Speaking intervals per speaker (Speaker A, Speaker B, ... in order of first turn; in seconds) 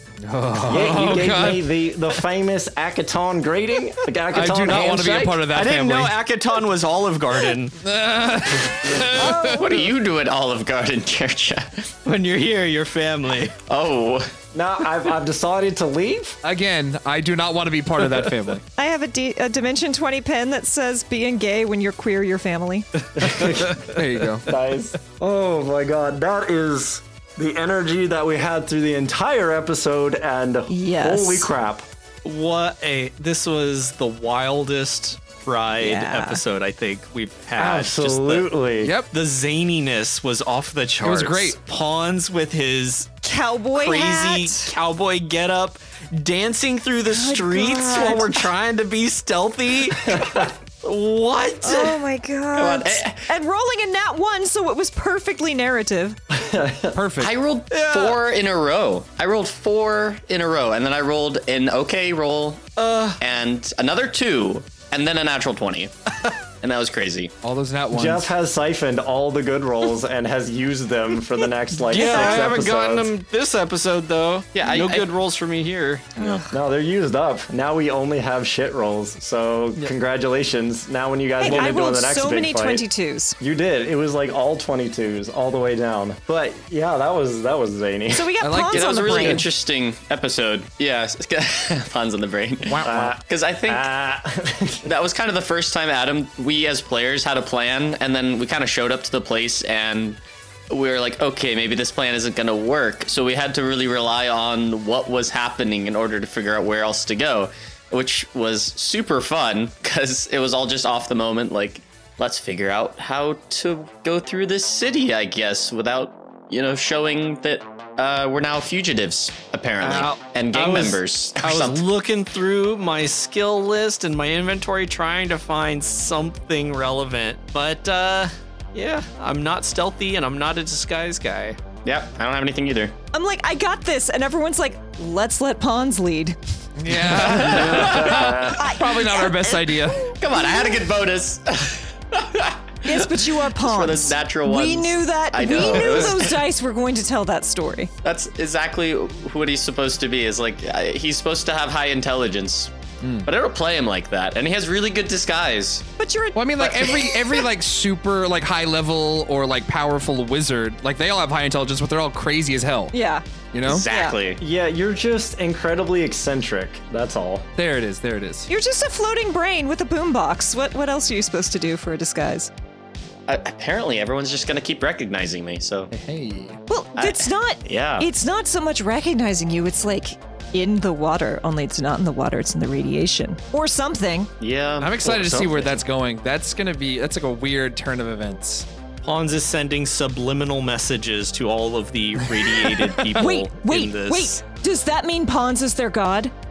Speaker A: 0.3-1.6, 4.3-6.1, 7.8-9.5, 16.4-18.6, 24.0-24.4, 38.8-39.1, 41.0-41.5, 56.9-57.3, 67.4-68.2, 88.4-89.4, 92.7-93.1, 136.8-140.0, 156.3-162.9, 163.5-163.9, 167.6-168.5, 175.9-176.6, 184.8-188.7
Speaker B: 0.6-5.5, 14.5-16.4, 23.2-23.8, 24.4-31.9, 37.6-38.9, 50.1-50.5, 56.3-57.0, 67.9-73.1, 76.5-82.8, 83.4-88.3, 92.8-94.9, 137.8-138.2, 164.4-167.4
Speaker C: 5.5-7.8, 12.0-13.6, 32.2-38.5, 39.1-43.2, 43.7-52.0, 57.7-58.2, 62.8-63.2, 71.9-76.4, 119.8-131.6, 189.0-194.4
Speaker D: 9.2-9.7, 18.8-22.9, 30.7-31.5, 35.8-36.4, 43.2-44.8, 47.1-48.5, 51.6-56.2, 71.9-72.3, 76.2-76.5, 81.4-83.4, 88.1-89.5, 133.1-136.4, 137.3-140.8, 142.8-147.9, 156.0-157.0, 162.9-164.2, 168.5-172.5, 176.7-184.3, 193.2-196.3
Speaker E: 9.4-11.9, 13.7-14.3, 52.6-53.3, 57.2-65.9, 66.6-67.3, 74.5-75.1, 88.7-93.9, 94.8-121.8, 131.8-132.9, 137.2-138.4, 140.1-146.4, 148.0-152.7, 153.2-155.9, 156.6-157.0, 163.6-164.4, 173.3-175.9, 176.9-178.1, 184.4-185.8